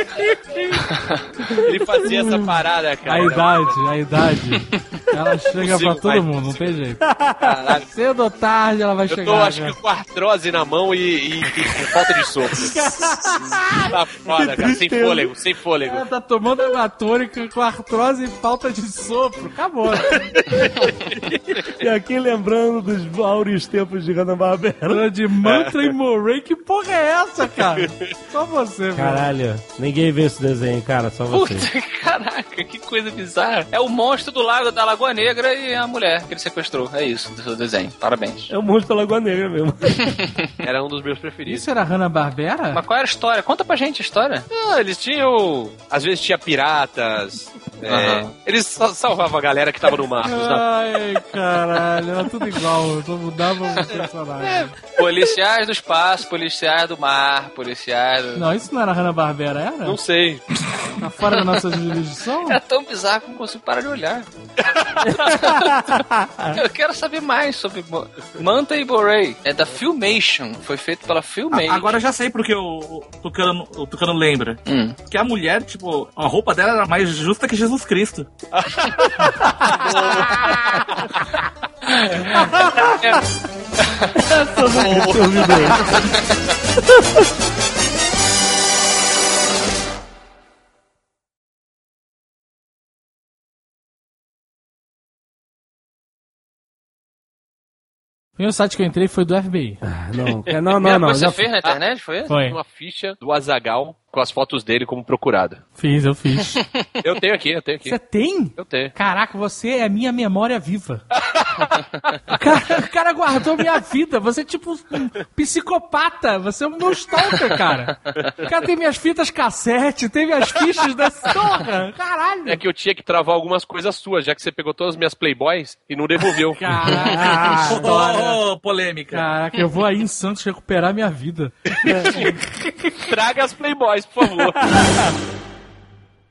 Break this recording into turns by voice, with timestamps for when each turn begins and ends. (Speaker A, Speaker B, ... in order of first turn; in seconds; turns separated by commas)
Speaker A: 1.0-1.2, Speaker B: 1.5-3.9, Speaker C: 3.1-7.0, Speaker B: 5.5-6.8, Speaker D: 7.0-7.8, Speaker B: 7.4-7.8, Speaker C: 7.9-9.8, Speaker B: 9.1-12.8, Speaker C: 12.6-13.5, Speaker D: 13.4-15.3, Speaker B: 13.8-16.0, Speaker C: 15.9-20.3, Speaker B: 20.4-21.8, Speaker D: 21.7-25.1, Speaker C: 24.9-29.3, Speaker B: 25.4-25.9, Speaker B: 27.8-28.1, Speaker D: 28.9-31.7, Speaker A: 31.3-38.5, Speaker D: 38.5-40.1, Speaker A: 40.2-40.5, Speaker B: 40.6-41.6, Speaker C: 41.5-42.8, Speaker A: 42.7-44.5, Speaker B: 44.5-50.7, Speaker A: 47.9-48.3, Speaker C: 50.2-54.7, Speaker B: 54.4-55.0, Speaker A: 55.0-58.5, Speaker C: 58.4-60.0, Speaker B: 59.9-60.5, Speaker C: 61.0-62.6, Speaker A: 62.5-64.3, Speaker B: 64.6-65.3, Speaker A: 65.1-66.0, Speaker D: 65.8-66.6, Speaker A: 66.5-72.0, Speaker E: 71.5-78.3, Speaker A: 74.7-75.0, Speaker B: 78.6-80.6, Speaker A: 81.9-83.2, Speaker A: 83.9-84.2, Speaker D: 84.2-85.9, Speaker B: 84.7-85.2, Speaker D: 86.8-87.3, Speaker C: 98.4-99.8, Speaker D: 99.8-101.5, Speaker A: 100.7-102.3, Speaker C: 102.3-102.6, Speaker B: 102.4-105.6, Speaker C: 105.8-106.6, Speaker B: 107.0-108.0, Speaker C: 107.8-111.0, Speaker B: 108.5-108.9, Speaker C: 112.3-122.6, Speaker B: 122.5-126.6, Speaker C: 126.5-128.4, Speaker D: 127.0-127.8, Speaker E: 127.7-129.3, Speaker C: 129.1-132.3, Speaker B: 131.8-132.3, Speaker B: 132.9-134.7